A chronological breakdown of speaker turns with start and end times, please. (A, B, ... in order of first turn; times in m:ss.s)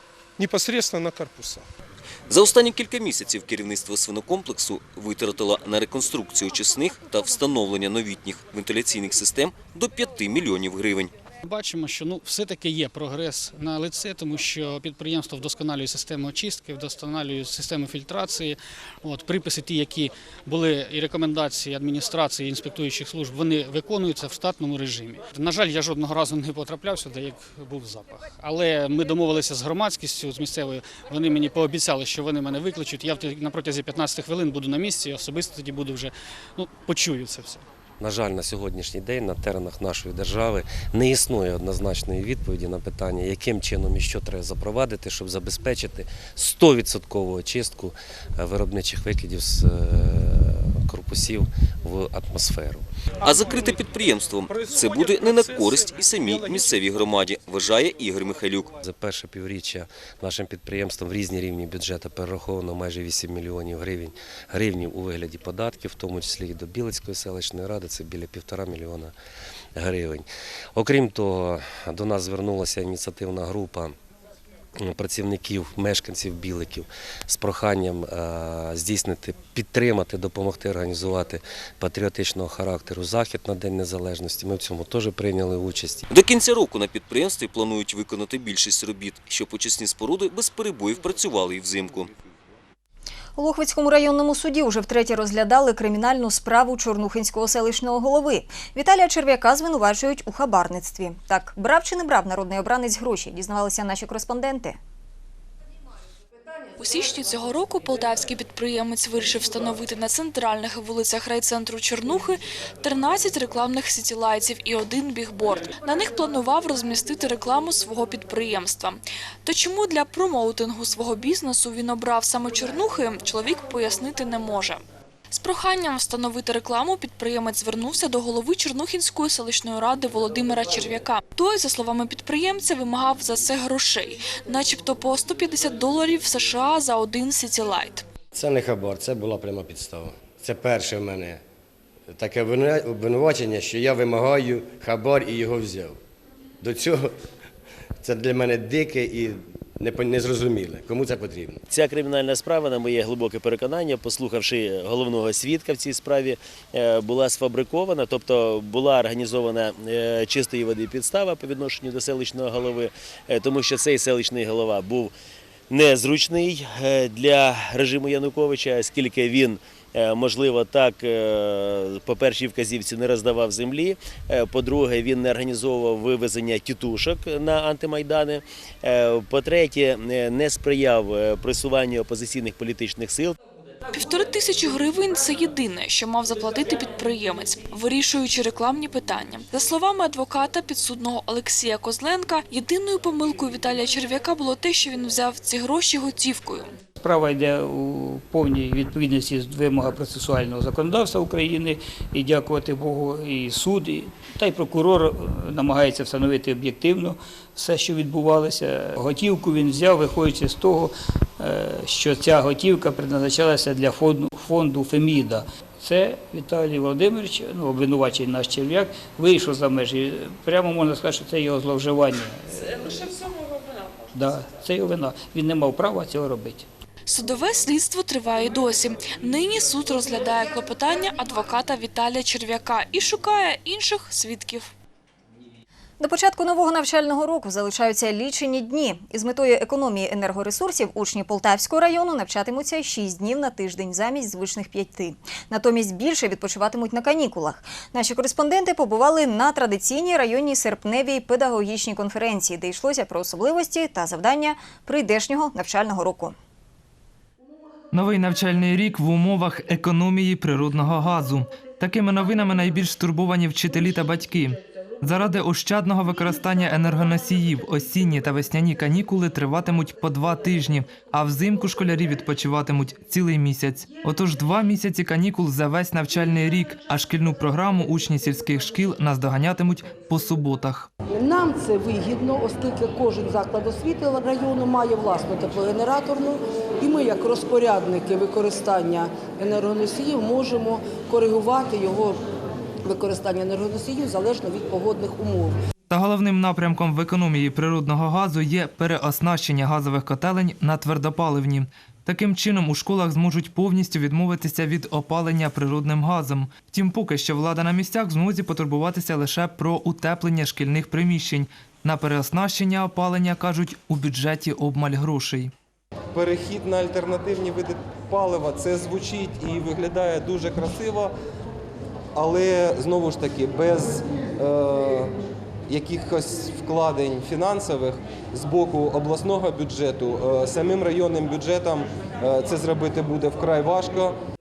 0:00.4-0:01.7 A
0:02.3-0:11.1 B
0:11.4-0:37.6 C
0:38.0-0:52.9 D
0:53.2-0:58.7 B
0:53.2-0:53.8 A
0:54.5-0:56.9 A
0:58.8-1:09.1 D
1:09.8-1:14.0 D
1:14.8-1:26.0 D
1:26.1-1:32.1 B
1:33.4-1:44.8 E
1:46.8-2:18.0 F
2:18.3-2:21.4 G
2:22.1-2:26.0 G
2:26.6-2:27.2 G
2:28.0-2:31.6 G
2:31.7-2:45.1 H
2:45.7-3:03.4 H
3:03.9-3:16.7 F
3:17.0-3:43.1 I
3:44.1-3:46.6 I
3:47.1-3:54.7 F
3:56.0-4:16.4 E
4:17.9-4:40.9 J
4:41.1-4:52.2 K
4:52.9-4:55.6 K
4:55.9-5:15.5 J
5:16.1-5:21.1 L
5:22.2-5:25.1 L
5:25.7-5:34.1 L